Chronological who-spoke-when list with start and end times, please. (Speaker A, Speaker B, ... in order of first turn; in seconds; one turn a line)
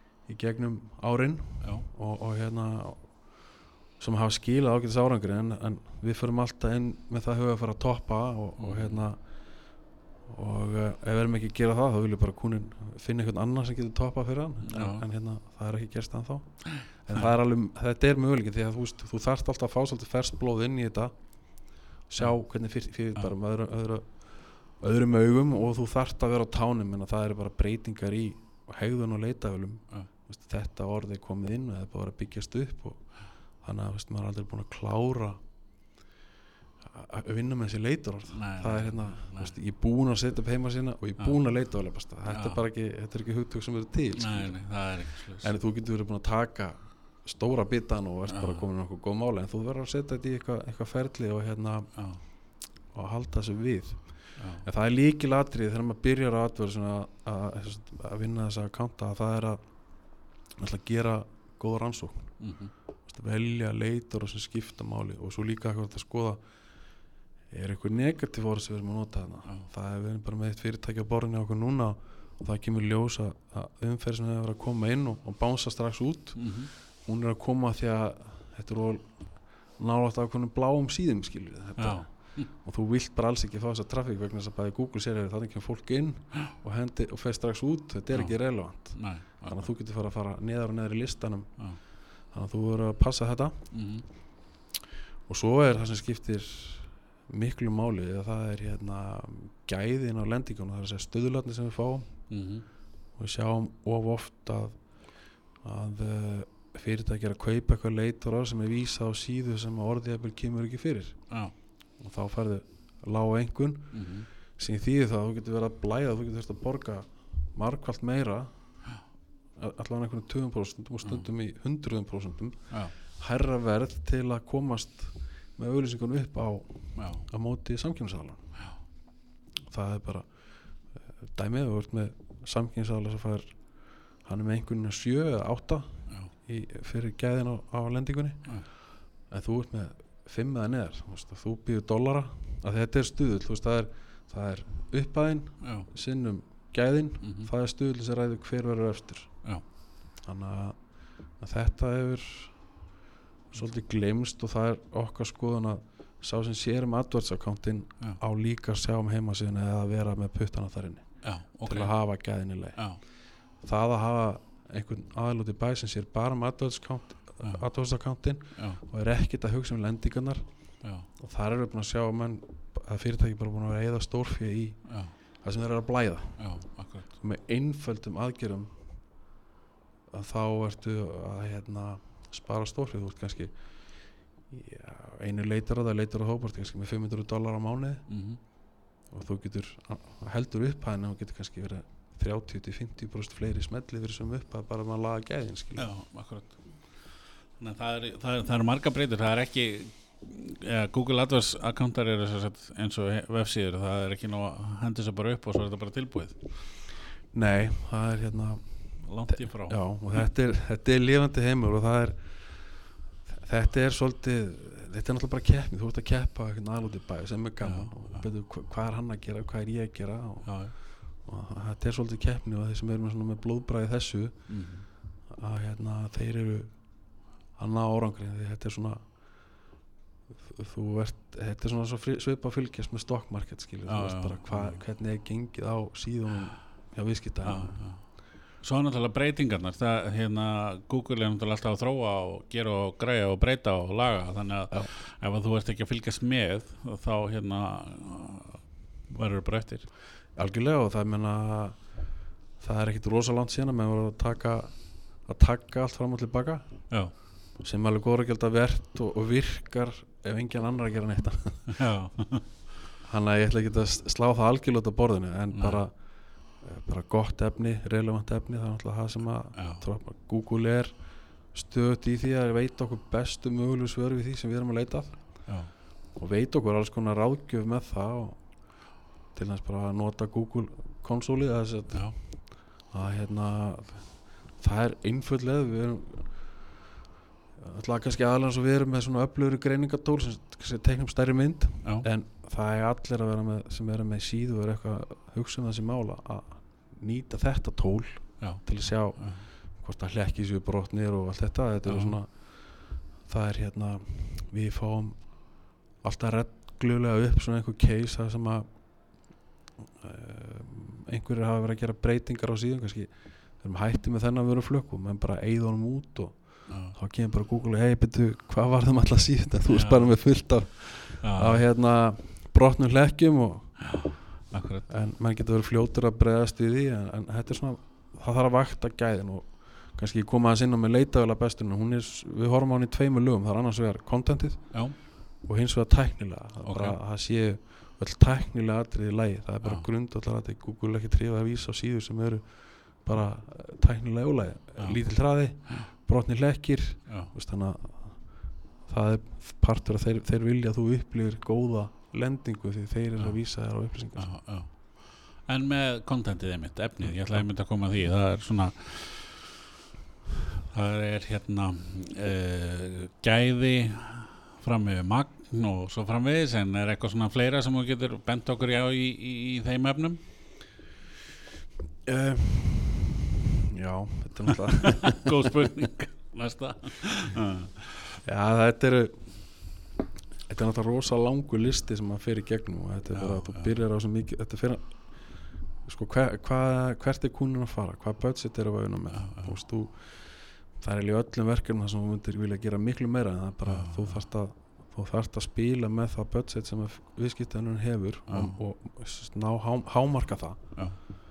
Speaker A: 0.2-35.4
Speaker B: 1.6-1.9
Speaker B: 8.6-9.0
Speaker B: 14.6-15.0
Speaker A: 36.9-44.6
Speaker B: 38.3-39.5
Speaker B: 42.3-42.6
Speaker B: 44.1-45.5
Speaker A: 45.4-62.4
Speaker B: 48.3-48.6
Speaker B: 51.9-52.2
Speaker B: 54.4-54.6
Speaker B: 62.4-62.7
Speaker A: 63.0-66.4
Speaker A: 67.5-93.7
Speaker B: 76.3-76.7
Speaker B: 81.8-82.5
Speaker B: 88.1-89.7
Speaker B: 93.7-94.0
Speaker A: 95.2-102.2
Speaker B: 102.3-102.7
Speaker A: 103.1-118.8
Speaker B: 111.3-111.5
Speaker B: 113.9-114.3
Speaker A: 119.5-128.6
Speaker B: 121.0-121.3
Speaker B: 122.7-122.9
Speaker B: 127.0-127.2
Speaker A: 129.7-152.8
Speaker B: 145.6-145.9
Speaker B: 147.2-147.5
Speaker A: 153.5-179.1
Speaker B: 161.2-162.1
Speaker B: 162.8-163.0
Speaker B: 167.4-167.7
Speaker B: 168.5-168.8
Speaker B: 170.8-171.1
Speaker B: 174.8-175.1
Speaker B: 176.4-177.1
Speaker A: 180.1-188.1
Speaker B: 188.1-188.4
Speaker A: 189.1-195.9
Speaker B: 195.8-206.5
Speaker A: 207.3-229.6
Speaker B: 209.0-209.8
Speaker B: 217.6-218.2
Speaker B: 220.4-220.8
Speaker B: 224.5-224.9
Speaker A: 230.4-237.8
Speaker B: 233.8-234.8
Speaker B: 237.4-249.9
Speaker A: 250.3-261.8
Speaker B: 256.9-257.2
Speaker B: 261.7-262.5
Speaker A: 263.0-278.7
Speaker B: 265.5-265.8
Speaker B: 269.5-269.8
Speaker B: 275.4-275.7
Speaker A: 279.3-286.7
Speaker B: 281.9-282.2
Speaker A: 287.6-309.3
Speaker B: 298.4-299.5
Speaker B: 301.9-302.2
Speaker A: 310.0-324.1
Speaker B: 316.7-316.9
Speaker B: 319.7-320.4
Speaker B: 321.2-321.6
Speaker B: 323.8-324.9
Speaker A: 324.9-354.3
Speaker B: 334.7-335.0
Speaker B: 336.6-337.0
Speaker B: 339.6-339.9
Speaker B: 344.8-345.0
Speaker B: 345.6-345.9
Speaker B: 347.1-347.3
Speaker B: 354.1-359.6
Speaker A: 357.0-357.5
Speaker B: 360.5-370.2
Speaker A: 372.0-375.5
Speaker B: 375.1-378.2
Speaker A: 378.2-379.8
Speaker A: 380.5-401.1
Speaker B: 383.1-383.7
Speaker B: 389.1-389.6
Speaker B: 393.6-394.2
Speaker B: 398.3-398.6
Speaker B: 400.7-401.0